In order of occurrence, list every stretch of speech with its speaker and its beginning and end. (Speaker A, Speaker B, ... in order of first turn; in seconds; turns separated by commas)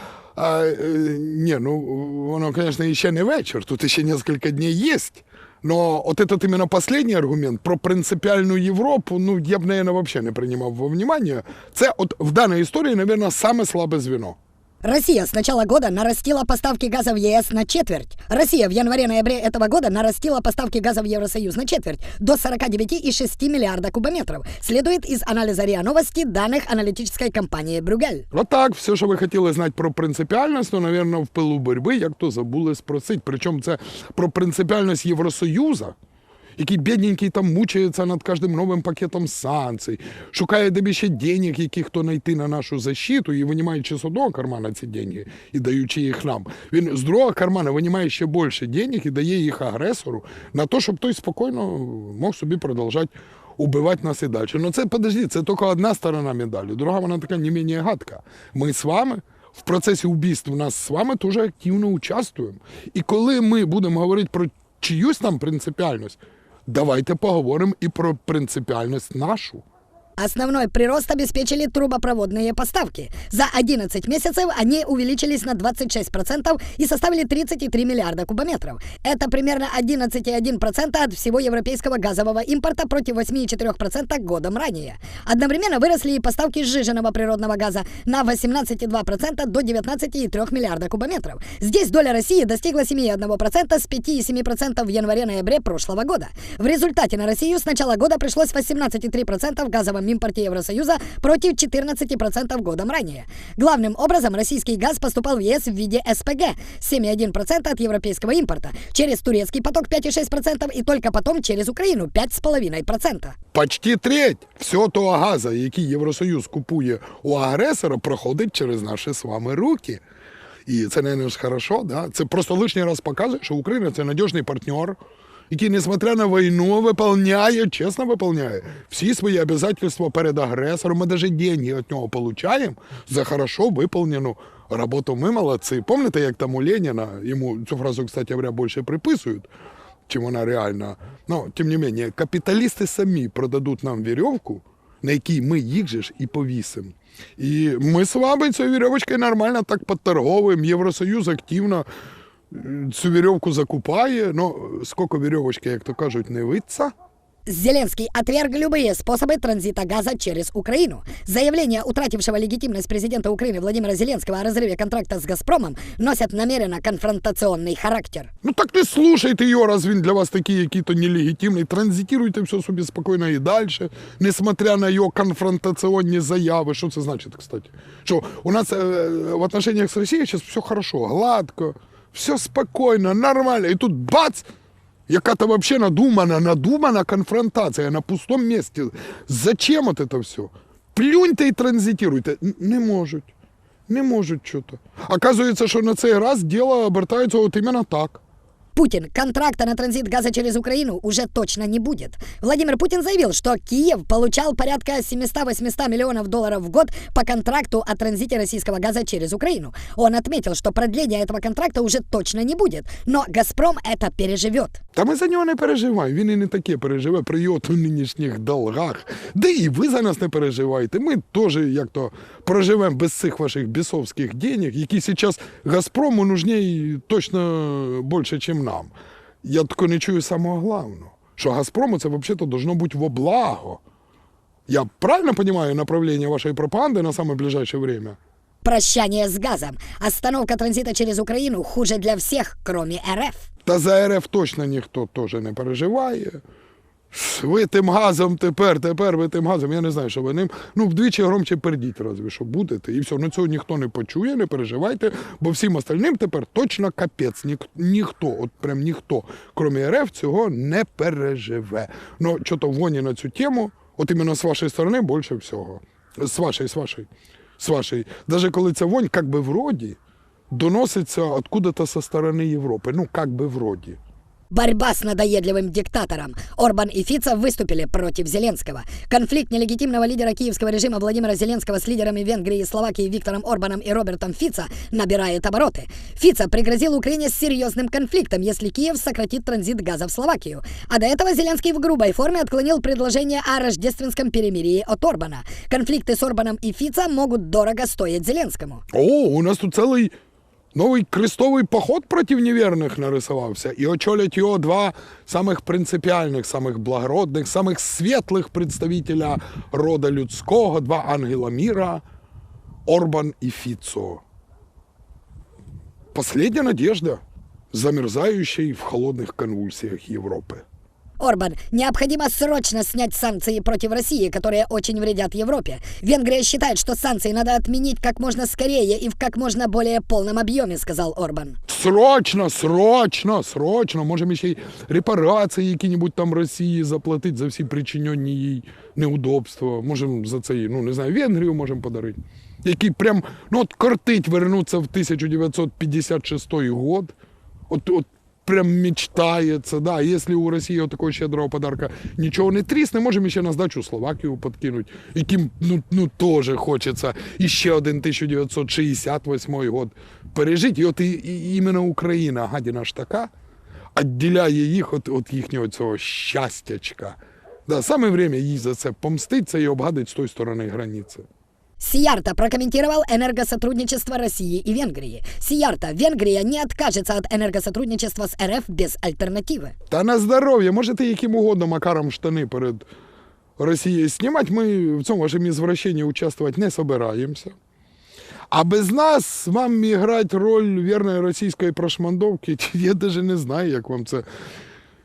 Speaker A: 0.4-14.4, Speaker B: 14.8-28.2, Speaker A: 28.3-36.0, Speaker A: 36.6-69.6, Speaker B: 70.2-113.4, Speaker A: 113.5-120.0, Speaker A: 120.7-125.0, Speaker A: 125.5-139.5, Speaker A: 140.1-151.9, Speaker A: 152.5-156.9, Speaker B: 157.5-168.3, Speaker A: 168.4-184.5, Speaker A: 185.1-193.3, Speaker A: 193.9-198.2, Speaker B: 198.8-214.8, Speaker A: 214.9-228.9, Speaker A: 229.4-233.8, Speaker A: 234.7-238.2, Speaker B: 238.6-243.5, Speaker A: 243.7-246.4, Speaker A: 247.1-267.1, Speaker A: 267.6-270.0, Speaker A: 270.5-274.0, Speaker B: 274.5-298.8, Speaker A: 298.9-300.1, Speaker A: 300.7-312.0, Speaker A: 312.9-314.2, Speaker A: 316.1-317.2, Speaker A: 317.7-320.6, Speaker B: 321.2-331.6, Speaker A: 331.7-347.1, Speaker A: 347.7-363.3, Speaker A: 364.0-371.2, Speaker B: 371.8-379.7, Speaker A: 379.9-382.9, Speaker A: 383.6-387.6, Speaker A: 388.5-394.2